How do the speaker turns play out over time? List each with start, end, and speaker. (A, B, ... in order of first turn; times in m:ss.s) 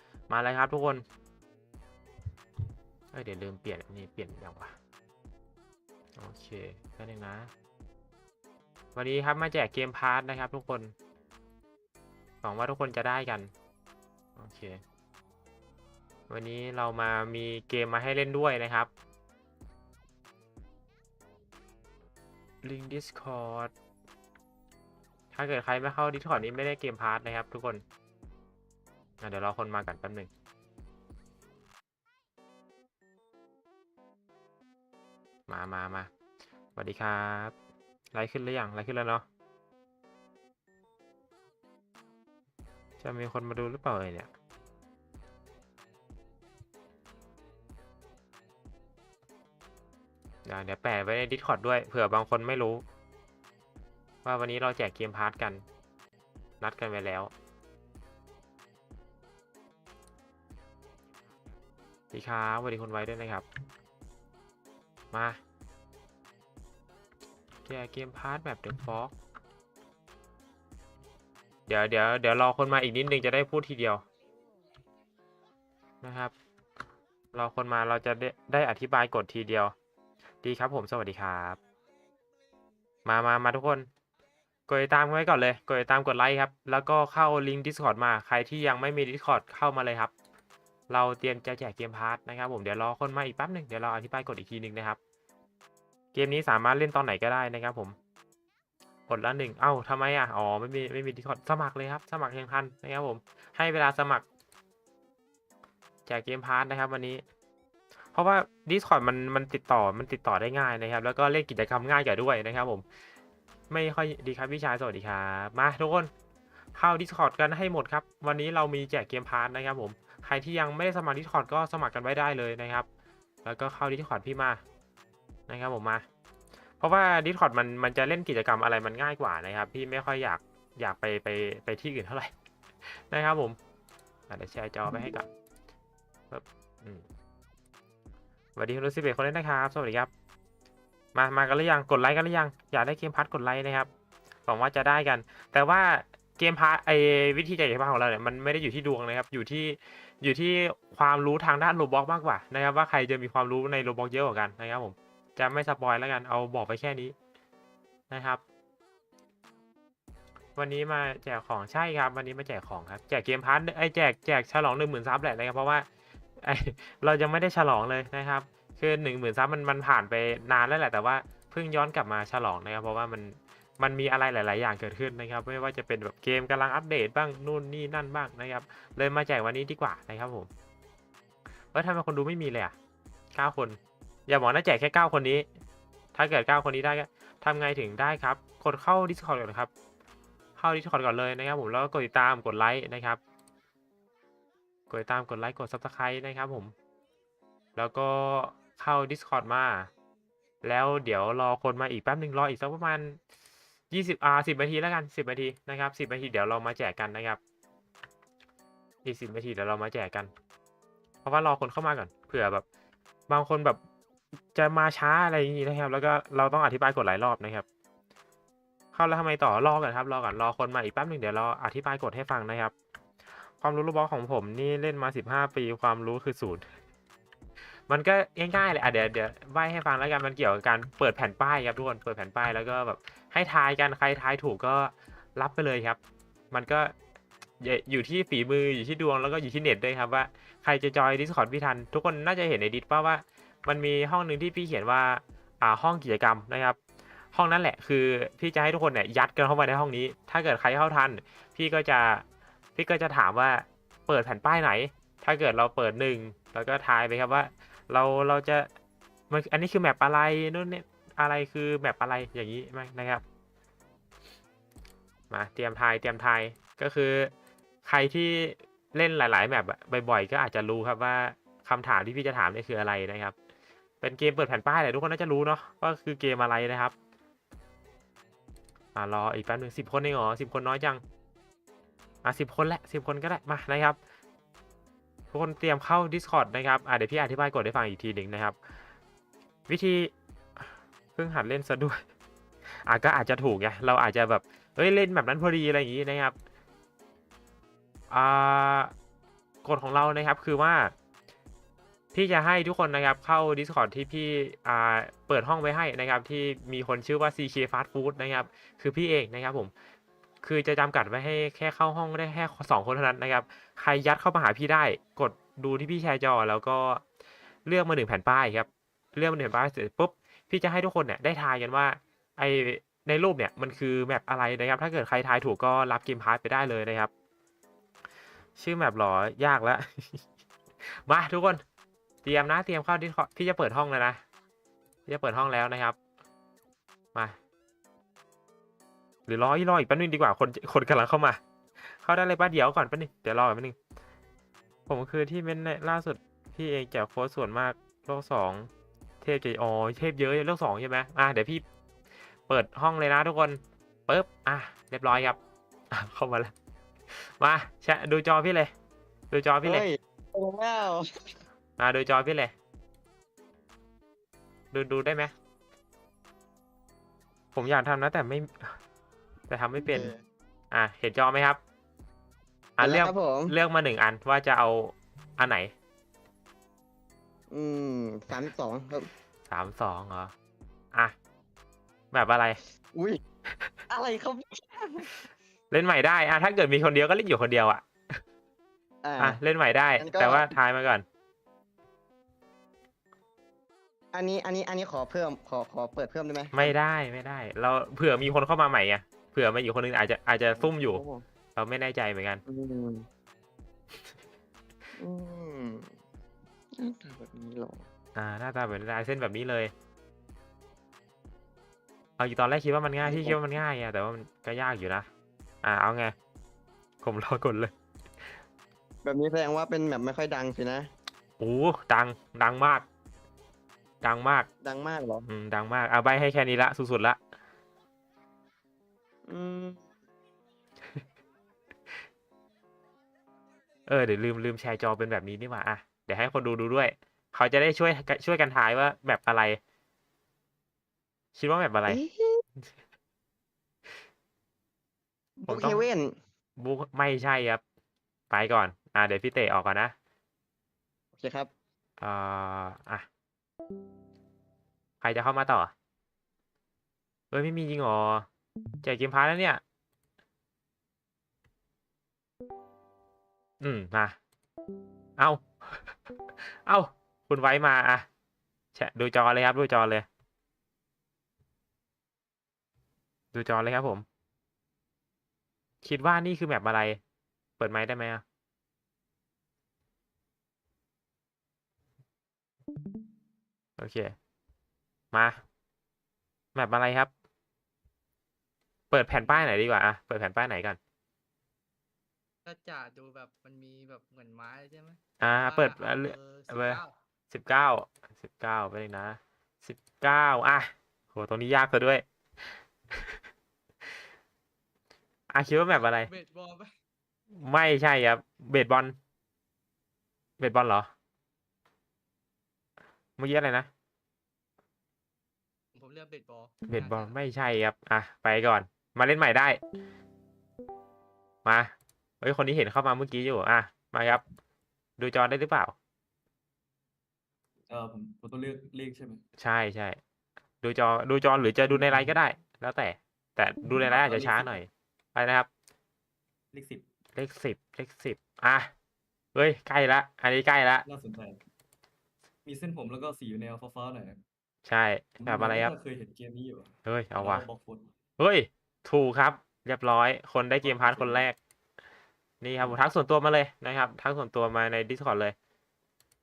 0:00.3-0:01.0 A
0:03.1-0:04.7 A
0:06.2-0:07.5 A
0:09.0-0:10.9 A
0:12.4-0:13.5 A
0:14.4-0:14.8 A
0:16.3-0:18.9 A
0:22.6-0:23.7 A
0:25.3-0:27.8 A
0:29.2-0:30.3 A
0:35.5-0:36.1 A
0:36.8-0:37.5 A
0:38.1-0:39.2 A
0:43.0-0:44.3 A
0:50.4-0:52.8 A
0:54.2-0:55.6 A
0:56.6-0:57.3 A
1:02.1-1:03.4 A
1:05.1-1:05.4 A
1:07.6-1:09.1 A
1:11.7-1:14.0 A
1:16.0-1:16.3 A
1:17.3-1:19.7 A
1:20.4-1:21.6 A
1:23.0-1:23.9 A
1:24.7-1:30.1 A
1:30.9-1:35.0 A
1:36.1-1:37.9 A
1:39.1-1:44.2 A
1:46.1-1:47.2 A
1:48.1-1:52.8 A
1:53.7-1:56.1 A
1:56.8-2:02.9 A
2:03.4-2:04.6 A
2:05.5-2:06.0 A
2:06.8-2:12.3 A
2:12.9-2:13.6 A
2:14.3-2:15.3 A
2:16.3-2:17.0 A
2:18.6-2:20.1 A
2:21.1-2:23.9 A
2:24.5-2:37.1 A
2:38.1-2:38.4 A
2:40.6-2:45.8 A
2:46.4-3:00.5 A
3:01.7-3:02.7 A
3:03.3-3:05.4 A
3:06.1-3:09.7 A
3:10.6-3:13.2 A
3:14.9-3:16.7 A
3:17.8-3:19.9 A
3:20.6-3:23.2 A
3:23.9-3:27.4 A
3:29.0-3:30.3 A
3:31.2-3:32.6 A
3:33.3-3:33.8 A
3:34.5-3:37.6 A
3:38.9-3:42.7 A
3:43.6-3:46.6 A
3:47.9-3:56.0 A
3:56.5-3:56.9 A
3:57.6-4:06.8 A
4:07.3-4:12.2 A
4:12.8-4:18.7 A
4:19.3-4:23.2 A
4:25.3-4:27.3 A
4:27.8-4:33.3 A
4:34.0-4:36.9 A
4:38.9-4:41.0 A
4:42.2-4:44.0 A
4:45.3-4:48.6 A
4:49.7-4:50.1 A
4:51.2-4:52.0 A
4:52.8-4:56.3 A
4:58.1-4:58.9 A
4:59.6-5:00.9 A
5:02.1-5:09.7 A
5:10.4-5:17.0 A
5:17.6-5:27.1 A
5:28.6-5:30.2 A
5:31.0-5:31.6 A
5:32.2-5:34.2 A
5:35.1-5:36.0 A
5:39.3-5:41.4 A
5:41.9-5:43.8 A
5:44.9-5:48.7 A
5:49.2-5:51.6 A
5:52.5-5:55.4 A
5:55.9-5:56.5 A
5:57.1-5:58.7 A
5:59.3-5:59.8 A
5:59.6-6:01.4 B
6:01.8-6:02.5 A
6:04.7-6:05.3 A
6:07.5-6:08.8 A
6:09.5-6:10.1 A
6:09.8-6:10.2 B
6:10.7-6:11.6 A
6:12.8-6:15.7 A
6:12.8-6:13.5 B
6:17.5-6:19.1 B
6:19.5-6:20.3 A
6:22.1-6:22.6 A
6:22.9-6:23.2 B
6:23.9-6:25.1 B
6:25.7-6:28.2 A
6:29.0-6:29.4 B
6:29.2-6:31.0 A
6:30.0-6:30.5 B
6:34.1-6:36.7 B
6:36.5-6:41.0 A
6:40.6-6:41.2 B
6:41.6-6:42.4 A
6:42.4-6:43.0 B
6:45.0-6:45.9 B
6:46.7-6:47.8 B
6:48.2-6:49.7 A
6:52.2-6:55.1 A
6:53.0-6:53.4 B
6:55.6-6:56.1 A
6:57.0-6:57.7 A
6:59.0-7:00.9 B
7:01.4-7:02.8 A
7:04.0-7:04.5 A
7:04.6-7:05.3 B
7:05.3-7:07.2 A
7:09.3-7:09.8 B
7:13.9-7:19.6 A
7:21.3-7:22.0 A
7:21.9-7:22.4 B
7:25.4-7:26.1 B
7:25.5-7:25.8 A
7:26.6-7:27.6 A
7:28.3-7:29.9 A
7:31.2-7:31.5 B
7:32.0-7:33.0 A
7:35.0-7:35.7 A
7:37.3-7:38.2 A
7:38.8-7:39.6 A
7:43.6-7:44.2 A
7:45.2-7:45.9 A
7:46.6-7:48.0 A
7:48.7-7:50.0 A
7:53.3-7:54.0 A
7:55.8-7:57.0 A
7:57.6-7:58.2 A
8:03.8-8:04.1 A
8:05.1-8:05.4 A
8:06.5-8:07.1 A
8:08.9-8:10.8 A
8:09.1-8:09.5 C
8:12.4-8:16.9 C
8:15.2-8:22.0 A
8:25.3-8:26.1 A
8:25.8-8:26.7 C
8:27.3-8:28.9 A
8:30.4-8:30.9 A
8:33.2-8:33.7 A
8:35.7-8:37.2 C
8:36.6-8:39.6 A
8:41.4-8:44.2 A
8:45.0-8:45.7 A
8:47.7-8:49.2 D
8:49.4-8:50.0 A
8:50.6-8:55.5 A
8:51.7-8:52.1 D
8:53.6-8:54.6 D
8:56.5-8:56.8 D
8:57.2-8:58.7 A
8:59.3-9:00.8 A
9:00.8-9:01.4 D
9:02.4-9:04.2 D
9:04.6-9:05.7 A
9:05.2-9:07.9 D
9:06.8-9:07.4 A
9:08.2-9:11.4 A
9:10.6-9:11.3 D
9:12.4-9:15.3 A